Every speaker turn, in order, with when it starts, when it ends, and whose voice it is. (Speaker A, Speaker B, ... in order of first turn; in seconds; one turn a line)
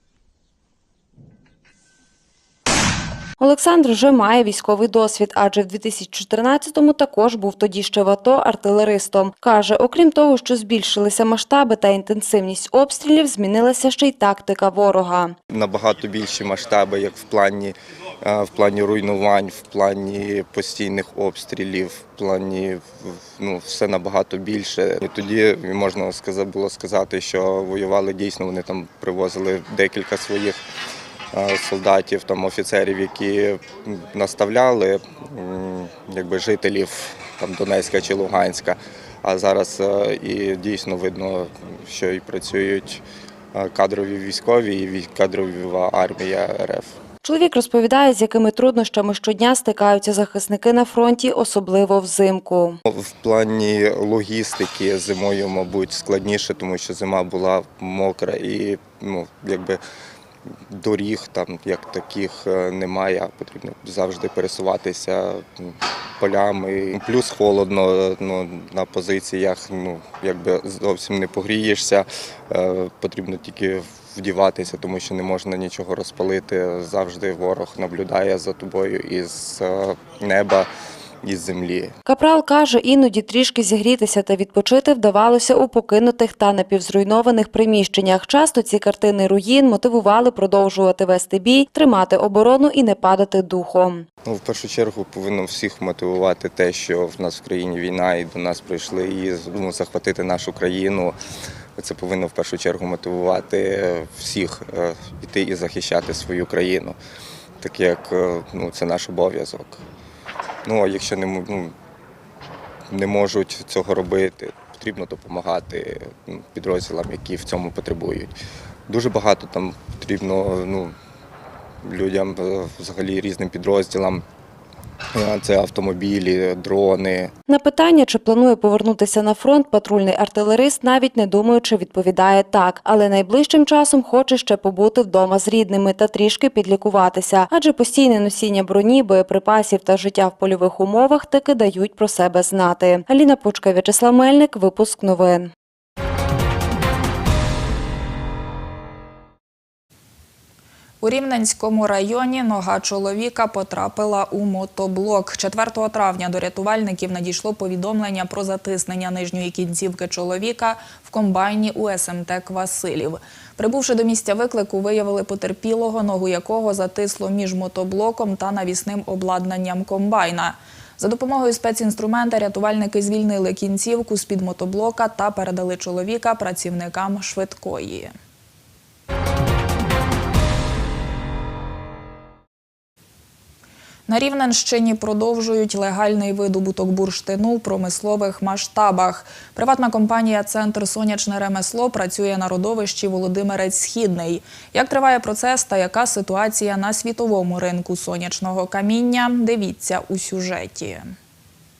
Speaker A: 3.4-15.3
Speaker B: 15.5-30.6
Speaker B: 31.3-43.0
Speaker B: 43.5-47.0
Speaker A: 47.2-52.8
Speaker B: 52.9-59.8
Speaker B: 60.7-80.7
Speaker B: 81.2-81.9
Speaker A: 82.1-94.1
Speaker B: 94.2-101.2
Speaker B: 101.8-107.0
Speaker B: 107.6-109.8
Speaker B: 110.7-111.8
Speaker B: 112.9-118.3
Speaker B: 118.9-120.9
Speaker B: 121.8-124.2
Speaker B: 125.1-127.3
Speaker A: 127.5-145.5
Speaker C: 151.0-178.1
Speaker C: 184.1-201.2